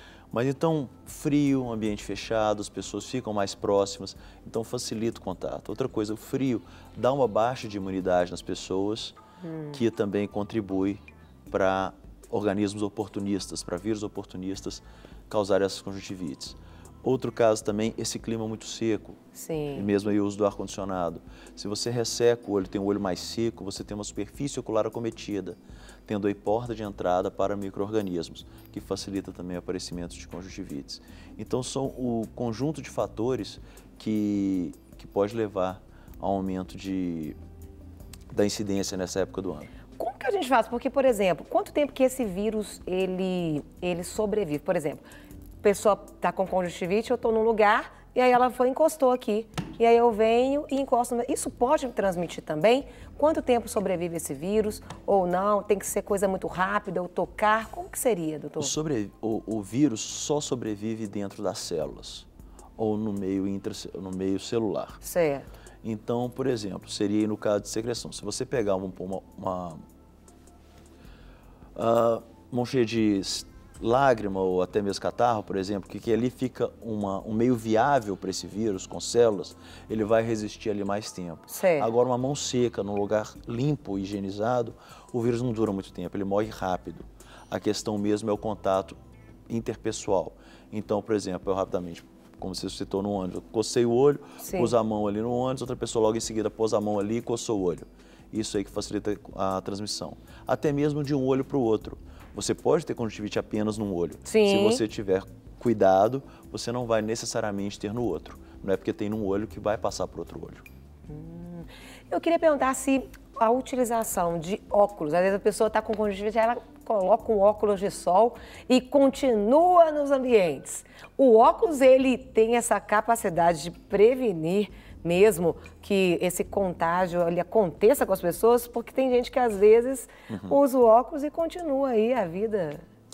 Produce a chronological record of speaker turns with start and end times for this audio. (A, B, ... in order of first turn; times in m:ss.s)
0:00.3-0:09.2 A
0:09.4-0:09.8 B
0:09.7-0:19.2 A
0:19.3-0:19.9 B
0:19.8-0:37.4 A
0:38.3-0:39.7 A
0:40.0-0:45.0 B
0:45.6-0:58.7 B
0:58.6-1:05.0 A
1:05.0-1:05.5 B
1:05.8-1:09.8 A
1:11.8-1:29.0 A
1:21.5-1:21.9 B
1:29.5-1:50.6 A
1:34.4-1:34.7 B
1:44.2-1:44.8 B
1:51.1-2:12.8 B
2:10.3-2:10.6 A